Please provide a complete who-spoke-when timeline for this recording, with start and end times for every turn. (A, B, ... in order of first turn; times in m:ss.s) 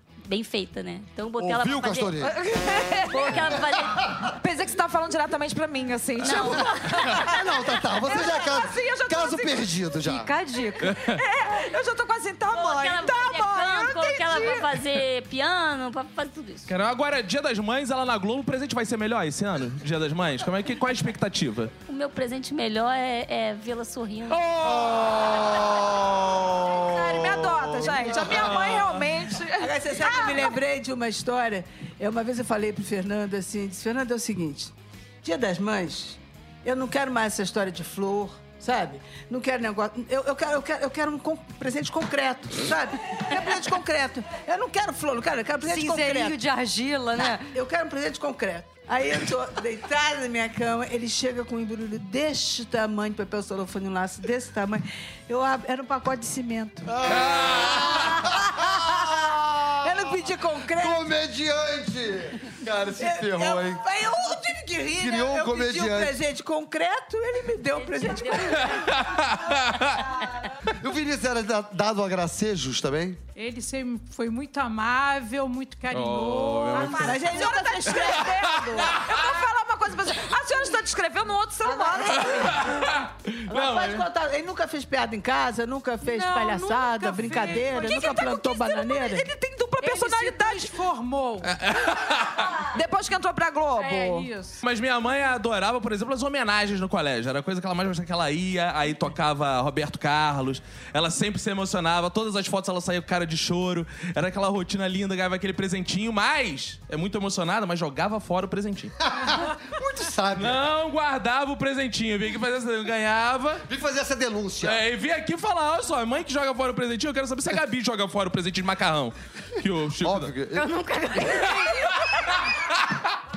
0:00.2-0:02.2 A
0:01.4-0:02.4 B
0:02.2-0:03.6 C
0:03.1-0:04.0 A
0:04.2-0:09.9 C
0:06.2-0:07.3 A
0:06.3-0:10.3 B
0:10.0-0:10.9 D
0:10.8-0:11.2 E
0:11.0-0:14.7 C
0:12.5-0:16.7 A
0:16.7-0:21.7 E
0:21.9-0:24.4 A
0:24.5-0:24.8 C
0:24.6-0:28.2 B
0:26.8-0:30.6 C
0:28.1-0:29.1 E
0:29.6-0:46.4 F
0:45.6-0:47.5 D
0:47.2-0:59.1 F
0:56.9-1:03.8 B
0:57.0-0:58.2 E
0:59.8-1:01.1 F
1:03.0-1:09.0 F
1:05.0-1:06.2 B
1:08.0-1:08.7 A
1:08.6-1:10.1 E
1:10.7-1:13.2 B
1:13.4-1:17.5 G
1:15.9-1:17.4 E
1:16.8-1:19.0 F
1:16.9-1:22.5 C
1:17.9-1:18.9 E
1:21.6-1:22.9 F
1:22.2-1:24.1 E
1:23.5-1:29.3 F
1:26.0-1:28.0 G
1:27.7-1:30.7 C
1:29.8-1:31.5 G
1:31.4-1:32.6 E
1:32.7-1:34.3 C
1:33.8-1:34.6 G
1:34.6-1:49.0 E
1:49.1-1:50.6 B
1:50.4-1:53.7 E
1:53.7-1:54.8 B
1:54.6-2:00.3 E
2:00.0-2:00.7 B
2:00.6-2:02.0 D
2:01.4-2:02.5 E